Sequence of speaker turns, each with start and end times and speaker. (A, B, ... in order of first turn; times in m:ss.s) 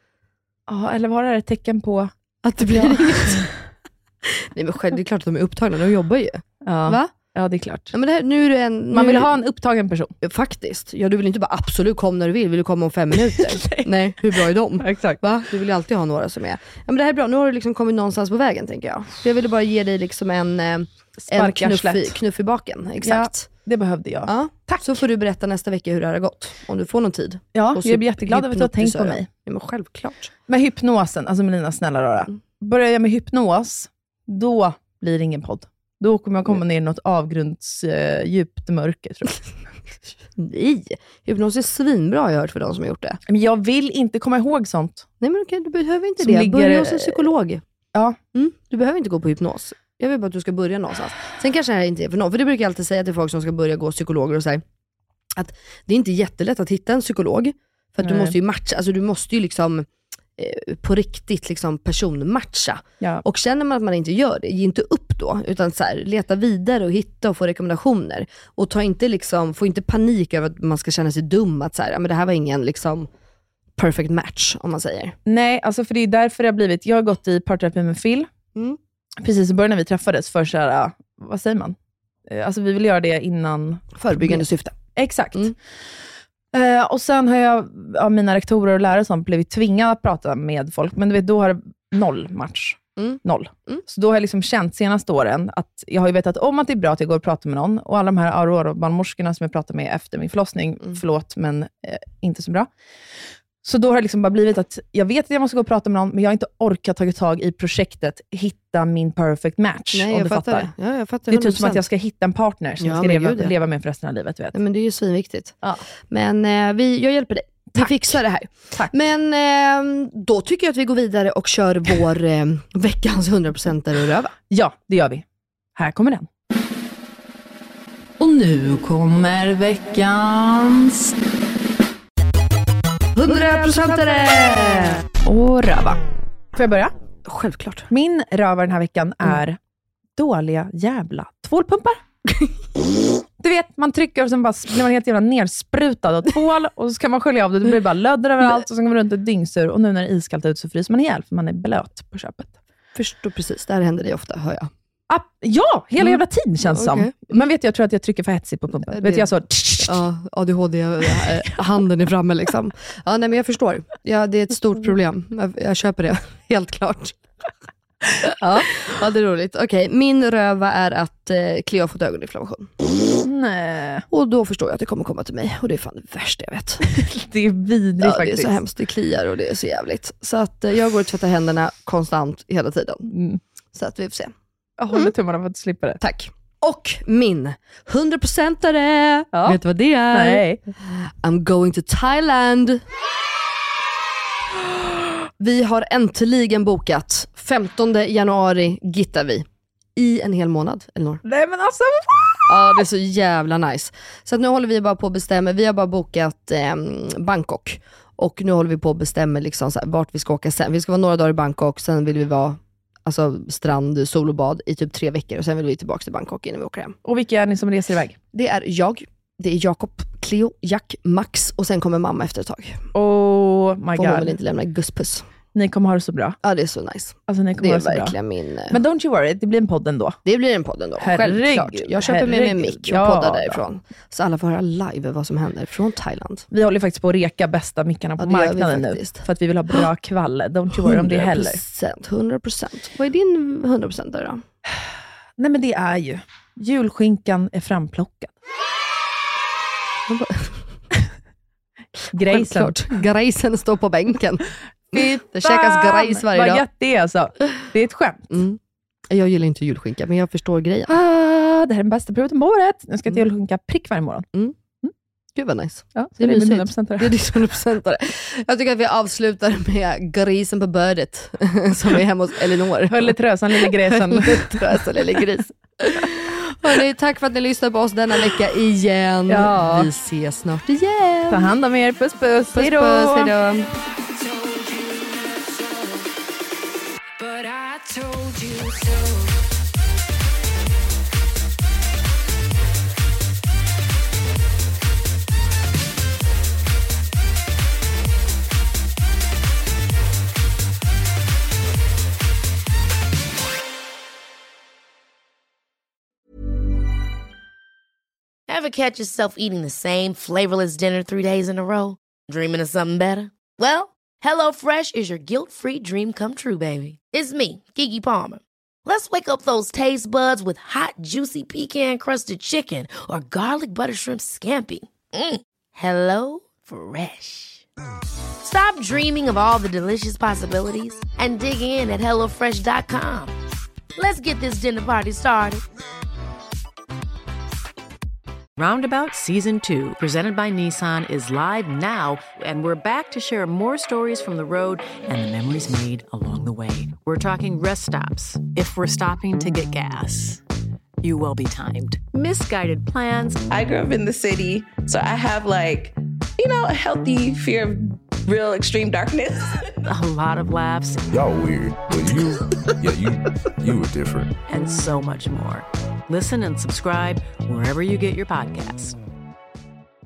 0:00.7-0:02.1 A
0:02.4-0:03.5 B
0:02.7-0:03.5 A
0:04.2-0:07.1 B
0:06.6-0:07.9 A
0:07.9-0:09.3 B
0:08.9-0:10.1 A
0:10.2-0:23.5 B
0:13.5-0:13.9 A
0:14.8-0:15.2 A
0:21.3-0:22.2 A
0:23.0-0:25.0 A
0:24.3-0:30.3 B
0:27.6-0:29.3 A
0:30.5-0:39.4 A
0:40.4-0:43.2 B
0:43.3-0:45.1 A
0:45.2-0:47.6 B
0:46.2-0:47.3 A
0:48.3-0:54.6 B
0:55.4-1:13.1 B
0:58.0-0:58.4 A
1:13.8-1:15.2 B
1:15.3-1:18.3 A
1:19.2-1:21.8 A
1:22.3-1:24.4 A
1:24.0-1:24.8 B
1:25.0-1:25.6 A
1:26.5-1:42.7 A
1:33.0-1:33.8 B
1:43.6-1:50.7 A
1:49.9-1:51.8 B
1:51.3-1:54.6 A
1:52.8-1:53.6 B
1:54.5-2:04.4 B
1:57.8-1:58.2 A
2:04.5-2:05.2 A
2:05.8-2:06.3 A
2:08.2-2:11.1 A
2:13.2-2:15.0 B
2:13.3-2:14.6 A
2:15.2-2:16.0 A
2:16.6-2:16.9 A
2:17.2-2:17.9 B
2:17.9-2:19.6 A
2:20.2-2:22.0 A
2:22.3-2:22.5 B
2:23.4-2:32.5 A
2:33.0-2:34.7 B
2:35.1-2:40.0 A
2:36.0-2:37.4 B
2:38.9-2:47.5 B
2:48.2-2:52.7 B
2:53.2-2:54.1 A
2:54.1-2:56.9 B
2:56.9-2:58.6 A
2:58.0-3:03.1 B
3:03.1-3:03.4 A
3:03.8-3:04.3 B
3:04.8-3:06.0 A
3:06.0-3:12.8 B
3:09.3-3:09.6 A
3:10.1-3:10.6 A
3:15.4-3:21.2 B
3:21.2-3:22.8 A
3:22.5-3:37.0 B
3:37.0-3:38.2 A
3:38.3-3:42.8 B
3:42.9-3:44.3 A
3:44.0-3:45.3 B
3:45.5-3:46.4 A
3:46.4-3:48.8 B
3:47.3-3:48.2 A
3:48.7-3:50.2 A
3:50.2-3:56.5 B
3:51.0-3:53.6 A
3:56.5-4:01.6 A
3:58.2-3:59.2 B
4:00.7-4:04.4 B
4:05.4-4:08.3 A
4:10.1-4:10.7 B
4:12.1-4:13.0 A
4:12.3-4:16.6 B
4:14.9-4:18.4 A
4:18.3-4:20.9 B
4:20.9-4:24.3 A
4:25.4-4:41.5 B
4:26.0-4:27.2 A
4:32.9-4:34.8 A
4:39.3-4:39.9 A
4:41.3-4:43.4 A
4:42.5-4:43.7 B
5:08.5-5:27.6 C
5:28.4-5:33.3 C
5:34.0-5:35.6 C
5:38.6-5:50.4 D
5:51.0-5:53.4 D
5:53.5-5:59.7 E
5:59.9-6:01.0 D
6:01.1-6:04.3 F
6:04.5-6:09.0 D